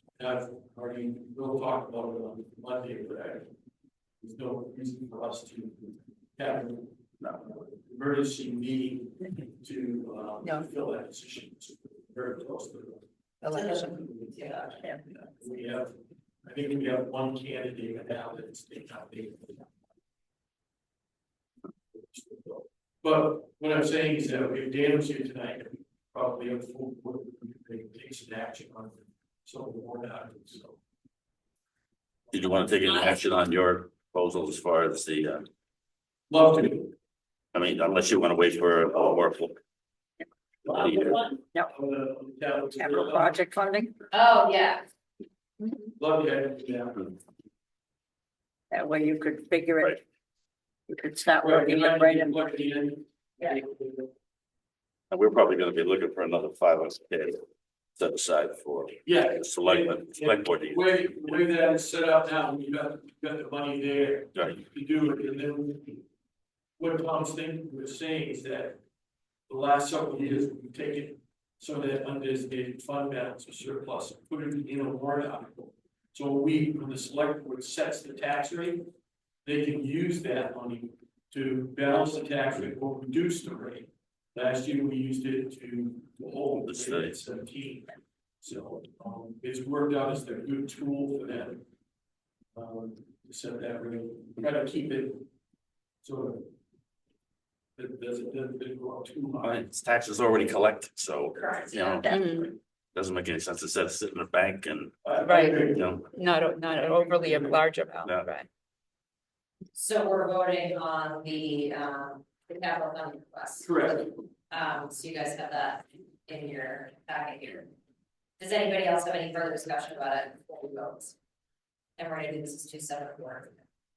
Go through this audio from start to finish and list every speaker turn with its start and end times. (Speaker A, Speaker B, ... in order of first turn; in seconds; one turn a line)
Speaker A: 0.2-3.5
Speaker A: 4.2-13.0
Speaker B: 13.4-14.0
Speaker C: 13.5-15.0
Speaker A: 13.9-19.7
Speaker A: 21.9-30.8
Speaker D: 32.3-35.5
Speaker A: 36.3-36.9
Speaker D: 37.5-39.6
Speaker A: 40.6-43.4
Speaker D: 40.7-41.2
Speaker E: 42.8-44.0
Speaker C: 44.1-44.9
Speaker A: 46.0-47.1
Speaker E: 48.7-50.0
Speaker E: 50.9-52.4
Speaker A: 51.4-54.1
Speaker D: 55.1-57.4
Speaker D: 58.0-60.9
Speaker A: 59.0-66.0
Speaker D: 64.3-64.6
Speaker A: 66.8-68.8
Speaker A: 69.5-78.8
Speaker A: 79.5-91.6
Speaker D: 86.6-87.1
Speaker A: 92.5-95.3
Speaker A: 96.0-96.5
Speaker A: 97.8-99.6
Speaker D: 99.4-106.1
Speaker C: 101.3-102.5
Speaker B: 102.1-102.5
Speaker A: 105.0-106.0
Speaker B: 105.2-108.5
Speaker A: 107.2-107.5
Speaker C: 109.7-117.7
Speaker A: 113.6-114.1
Speaker C: 118.4-121.2
Speaker C: 122.0-123.6